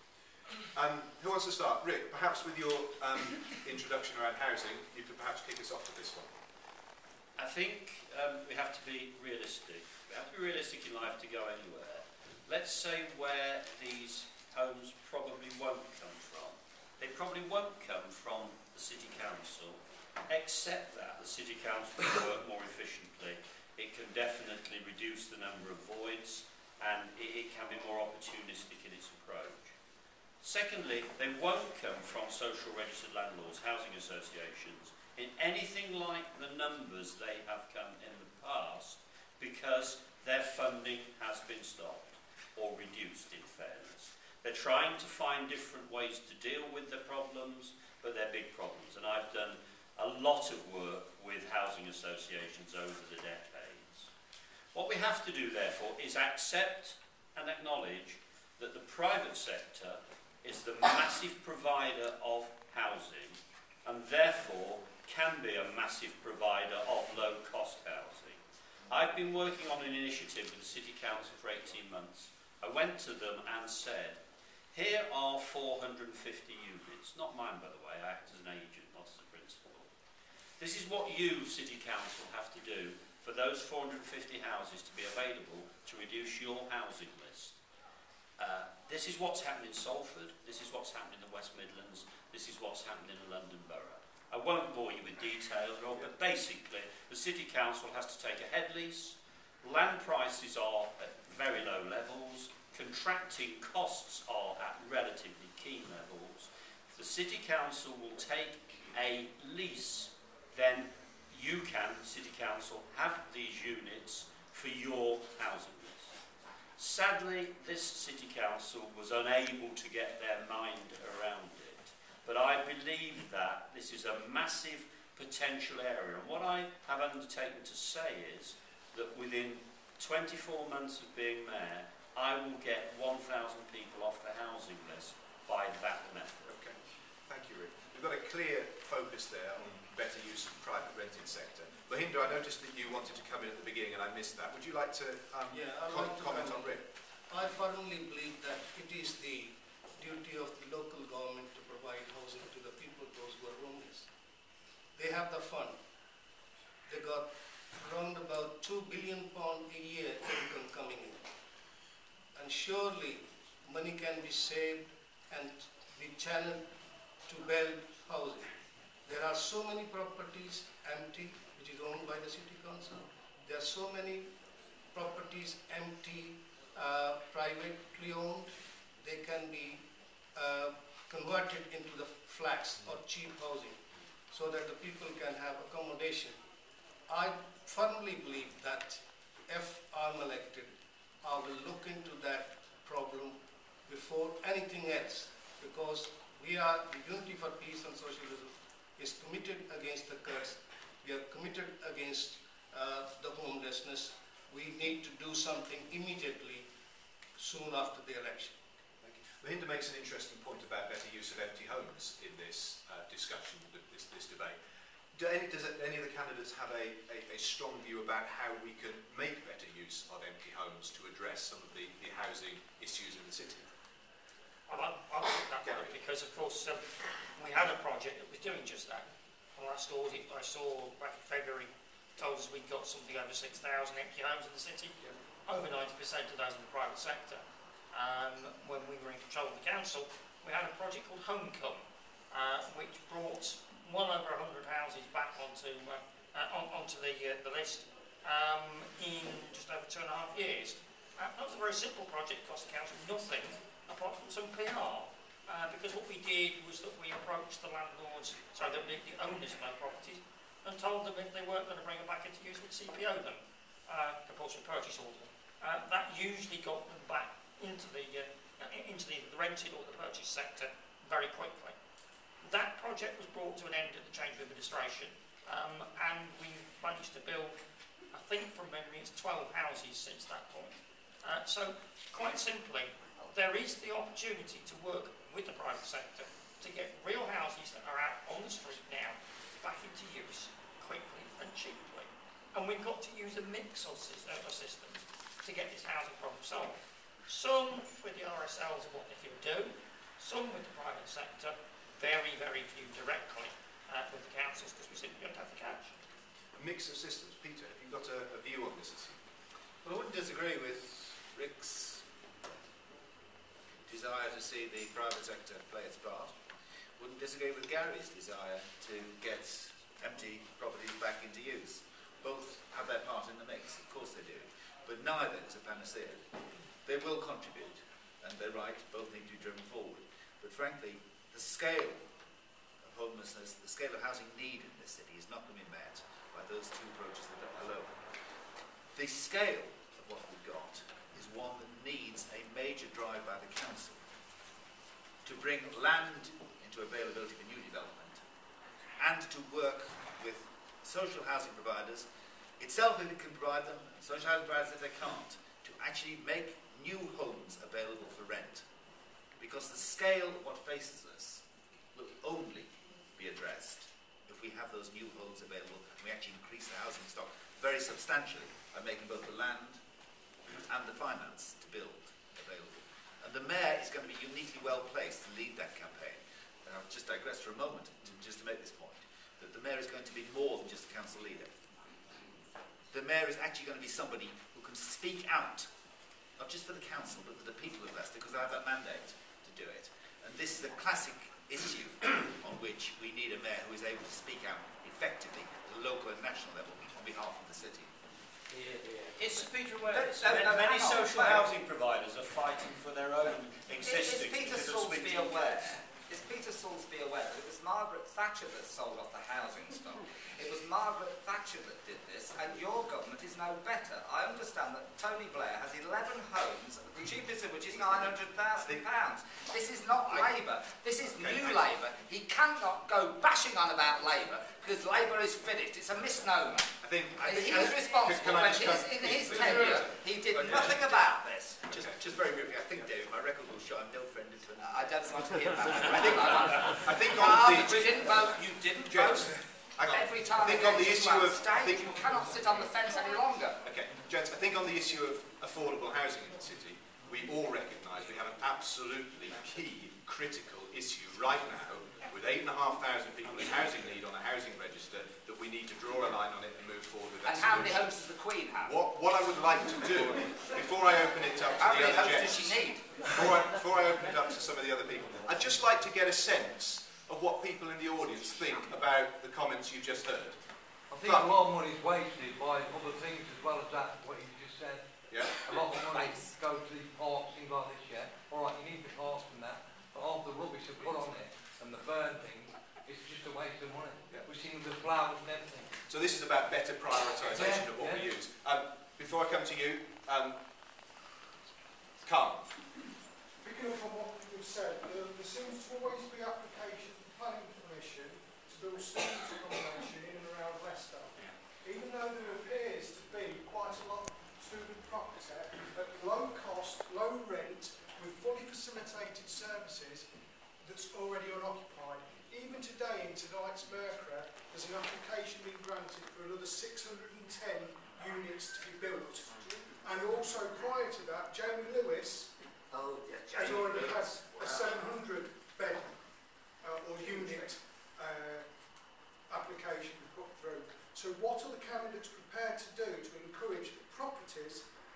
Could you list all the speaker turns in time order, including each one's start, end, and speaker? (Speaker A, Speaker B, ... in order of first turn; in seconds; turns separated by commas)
Speaker A: 0.7-6.3, Speaker B: 7.4-29.7, Speaker B: 30.4-54.1, Speaker B: 54.7-74.2, Speaker B: 74.7-79.9, Speaker B: 80.6-87.6, Speaker B: 88.4-116.1, Speaker B: 116.8-136.5, Speaker A: 136.5-136.8, Speaker A: 137.3-146.8, Speaker C: 145.5-154.1, Speaker C: 154.9-155.8, Speaker C: 156.9-161.2, Speaker C: 162.3-166.7, Speaker C: 167.2-168.5, Speaker C: 169.1-174.3, Speaker C: 174.9-179.8, Speaker C: 180.3-183.8, Speaker C: 184.3-186.4, Speaker C: 187.1-190.7, Speaker C: 191.2-206.7, Speaker C: 207.3-208.6, Speaker A: 209.0-214.6, Speaker A: 215.1-223.7, Speaker D: 224.7-271.7, Speaker A: 225.6-225.9, Speaker D: 272.4-277.5, Speaker D: 278.1-306.0, Speaker A: 306.6-309.2, Speaker E: 309.8-312.0, Speaker E: 313.9-316.3, Speaker E: 317.0-326.2, Speaker E: 326.8-332.1, Speaker E: 332.8-337.9, Speaker E: 338.9-344.0, Speaker E: 345.2-348.2, Speaker E: 349.0-352.1, Speaker E: 352.6-358.6, Speaker E: 359.4-369.8, Speaker E: 370.6-381.5, Speaker E: 382.9-385.7, Speaker E: 386.4-397.9, Speaker B: 399.1-405.8, Speaker F: 399.9-401.5, Speaker F: 403.8-431.6, Speaker A: 418.6-418.9, Speaker A: 421.0-421.6, Speaker E: 426.8-435.0, Speaker A: 428.0-430.8, Speaker A: 431.7-432.0, Speaker F: 434.6-443.6, Speaker A: 435.9-442.2, Speaker A: 443.6-457.9, Speaker F: 457.2-458.8, Speaker A: 458.6-470.4, Speaker F: 461.6-463.0, Speaker G: 470.9-485.7, Speaker A: 471.0-471.3, Speaker A: 475.1-475.4, Speaker F: 475.8-476.3, Speaker A: 485.9-490.4, Speaker G: 487.4-488.0, Speaker A: 492.0-492.6, Speaker H: 493.4-510.1, Speaker H: 510.6-522.3, Speaker F: 522.7-524.8, Speaker H: 523.3-525.9, Speaker H: 526.5-528.6, Speaker F: 527.0-527.4, Speaker H: 529.3-534.7